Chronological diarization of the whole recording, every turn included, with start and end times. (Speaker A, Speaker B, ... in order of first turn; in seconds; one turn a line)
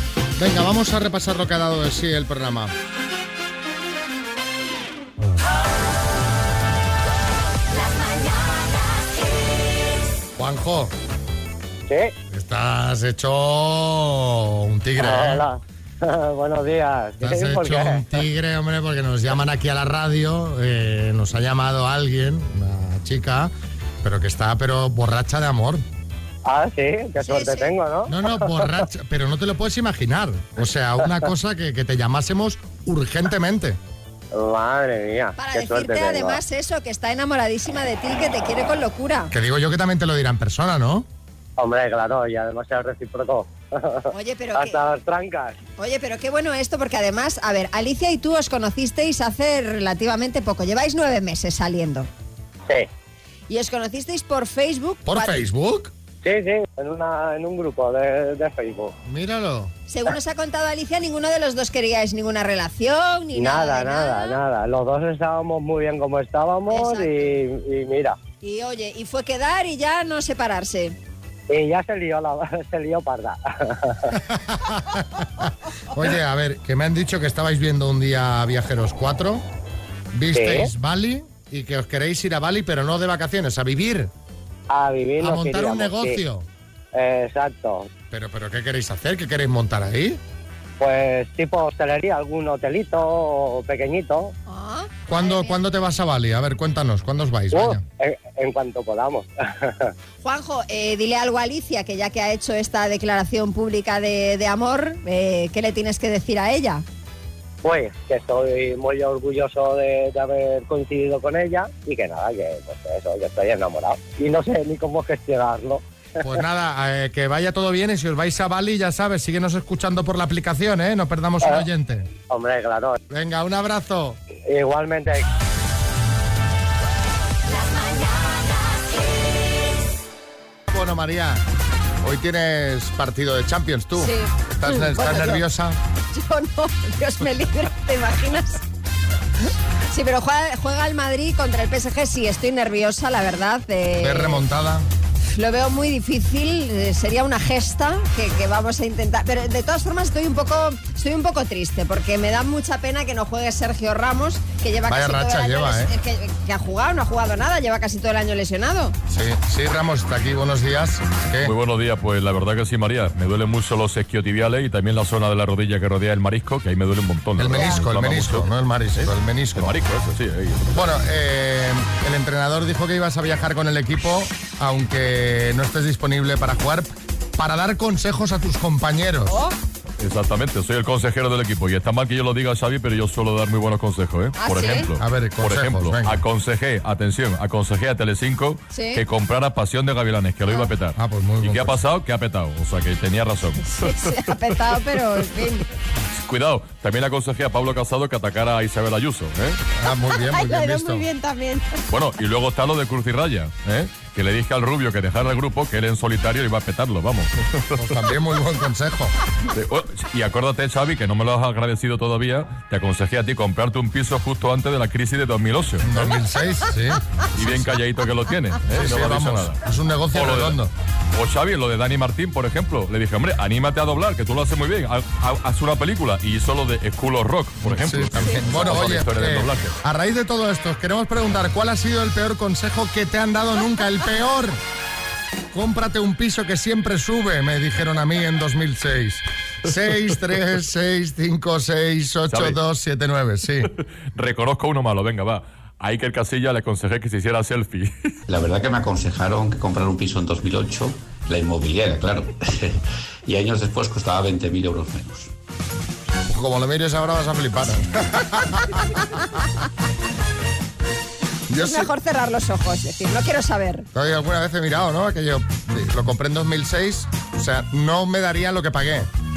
Speaker A: 0.4-2.7
Speaker A: 10.4-10.9
Speaker B: 11.9-12.1
Speaker A: 12.3-15.4
Speaker B: 15.0-18.1
Speaker A: 17.2-25.8
Speaker B: 26.4-28.8
Speaker C: 27.2-27.8
Speaker A: 28.1-33.8
Speaker B: 34.3-36.4
Speaker C: 35.4-39.3
Speaker A: 39.3-41.1
Speaker B: 41.6-45.6
Speaker C: 44.1-44.8
Speaker C: 45.8-52.1
Speaker C: 53.5-55.4
Speaker A: 55.1-55.9
Speaker B: 56.2-59.0
Speaker A: 59.0-59.7
Speaker C: 59.9-64.4
Speaker B: 63.4-68.2
Speaker C: 66.7-67.3
Speaker C: 68.4-71.0
Speaker B: 71.5-74.1
Speaker A: 74.1-79.4
Speaker A: 80.1-84.1
Speaker B: 80.3-80.7
Speaker B: 84.7-86.2
Speaker A: 85.2-86.5
Speaker B: 87.0-87.9
Speaker A: 88.1-90.2
Speaker B: 90.8-94.3
Speaker C: 94.5-95.6
Speaker A: 95.1-97.8
Speaker B: 97.5-99.9
Speaker C: 100.2-106.8
Speaker B: 107.6-115.8
Speaker A: 116.2-122.1
Speaker B: 122.3-123.0
Speaker A: 123.1-124.2
Speaker B: 124.5-125.3
Speaker A: 130.7-131.4
Speaker A: 132.0-135.8
Speaker C: 134.0-135.4
Speaker C: 136.1-138.6
Speaker C: 139.9-144.4
Speaker A: 144.0-144.9
Speaker C: 145.3-159.0
Speaker A: 154.9-155.9
Speaker A: 159.1-161.5
Speaker D: 161.4-170.7
Speaker A: 167.4-169.8
Speaker A: 170.7-179.4
Speaker C: 179.3-179.5
Speaker D: 180.0-193.7
Speaker C: 184.4-184.9
Speaker A: 185.0-186.1
Speaker C: 188.7-189.0
Speaker A: 191.0-191.8
Speaker C: 193.7-195.7
Speaker D: 196.1-199.6
Speaker A: 199.8-201.1
Speaker C: 200.3-201.8
Speaker D: 201.9-207.8
Speaker A: 207.8-209.2
Speaker D: 209.5-216.1
Speaker A: 215.8-217.7
Speaker D: 217.3-219.6
Speaker A: 218.7-220.7
Speaker D: 220.1-220.6
Speaker D: 221.2-229.8
Speaker A: 227.6-234.6
Speaker C: 228.2-228.8
Speaker A: 235.5-243.7
Speaker D: 242.3-242.6
Speaker D: 244.1-247.9
Speaker E: 248.3-255.3
Speaker A: 256.3-258.8
Speaker A: 261.5-261.9
Speaker C: 261.6-263.9
Speaker A: 263.9-269.1